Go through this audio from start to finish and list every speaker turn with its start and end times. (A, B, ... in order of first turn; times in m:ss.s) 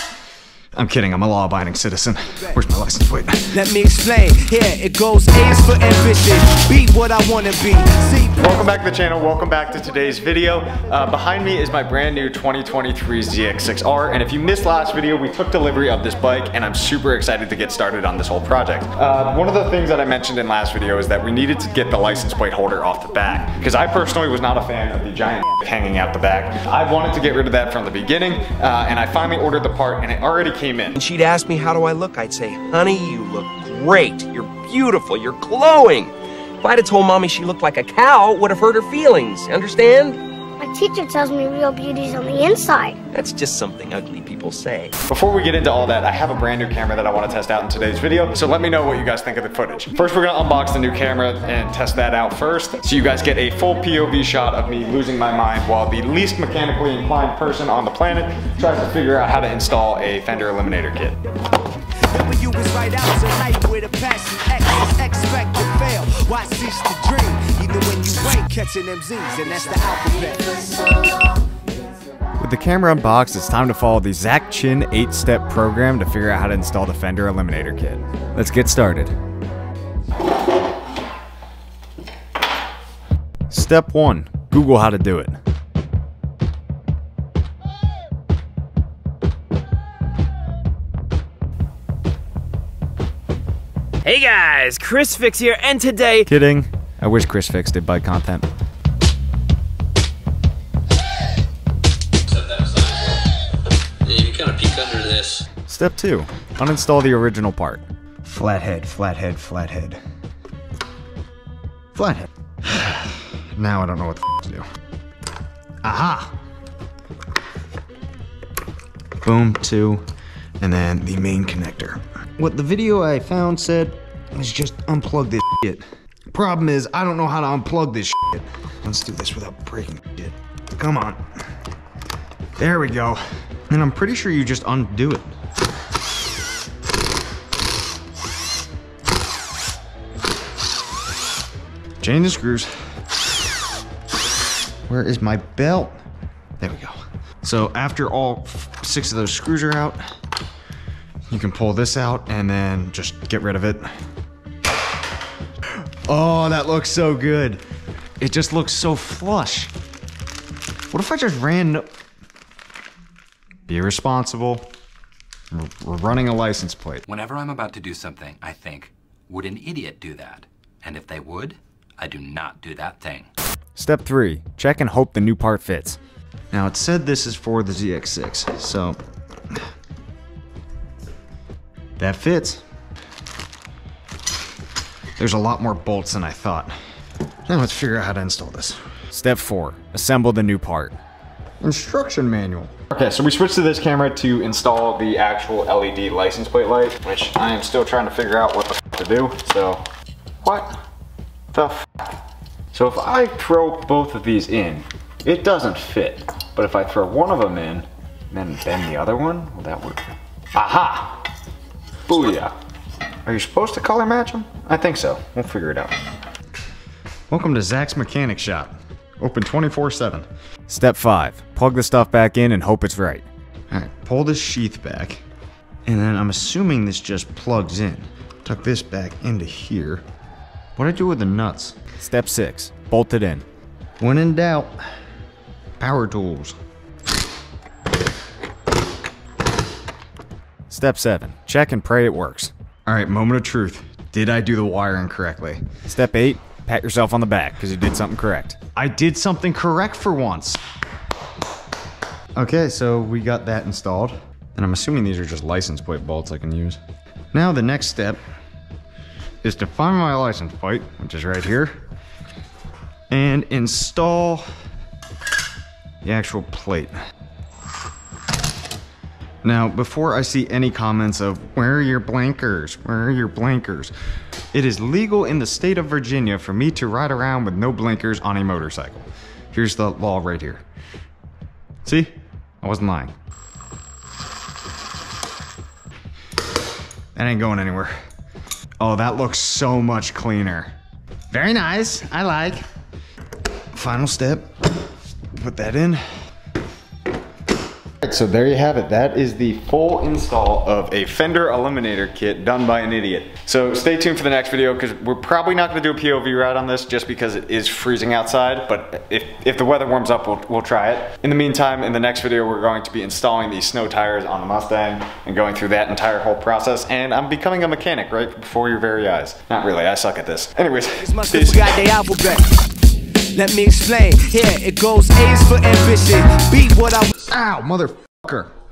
0:00.8-0:03.4 A
0:03.5-0:08.6 B
0:08.4-0:31.0 A
0:31.0-0:40.2 C
0:40.6-0:43.0 D
0:43.1-0:44.9 C
0:45.1-1:01.2 A
1:02.1-1:10.8 B
1:12.4-1:19.2 A
1:23.5-1:25.4 A
1:34.0-1:36.3 E
1:36.3-1:38.5 A
1:42.4-1:43.1 F
1:44.1-1:45.4 F
1:44.4-1:44.8 E
1:45.7-1:50.0 A
1:51.9-1:54.6 A
1:55.8-1:56.4 A
1:59.2-2:00.0 A
2:00.6-2:11.2 A
2:12.6-2:15.3 A
2:22.0-2:22.7 A
2:24.9-2:26.0 A
2:26.6-2:30.0 A
2:31.3-2:33.9 A
2:36.1-2:37.6 A
2:38.2-2:39.7 A
2:40.9-2:41.9 A
2:43.7-2:44.7 A
2:45.5-2:47.0 A
2:47.1-2:53.3 G
2:53.8-2:56.0 A
2:56.5-2:59.0 A
3:02.0-3:02.6 A
3:05.2-3:06.7 A
3:07.5-3:11.0 A
3:11.6-3:19.8 A
3:20.4-3:20.8 A
3:21.5-3:21.9 A
3:22.7-3:31.2 A
3:32.1-3:32.5 A
3:33.2-3:35.9 A
3:37.3-3:45.2 A
3:45.9-3:50.0 A
3:50.8-3:53.4 A
3:54.0-3:54.8 A
3:55.8-3:56.6 A
4:00.7-4:10.6 A
4:12.4-4:16.8 A
4:17.3-4:18.2 A
4:19.4-4:21.7 A
4:23.1-4:24.4 A
4:26.0-4:26.9 A
4:29.4-4:33.9 A
4:34.5-4:40.6 A
4:41.8-4:43.1 A
4:47.2-4:47.9 A
4:48.8-4:50.7 A
4:51.3-4:52.6 A
4:53.7-4:54.5 A
4:55.3-4:56.0 A
4:58.0-5:21.7 A
5:21.0-5:22.6 B
5:23.3-5:27.1 B
5:27.3-5:28.5 A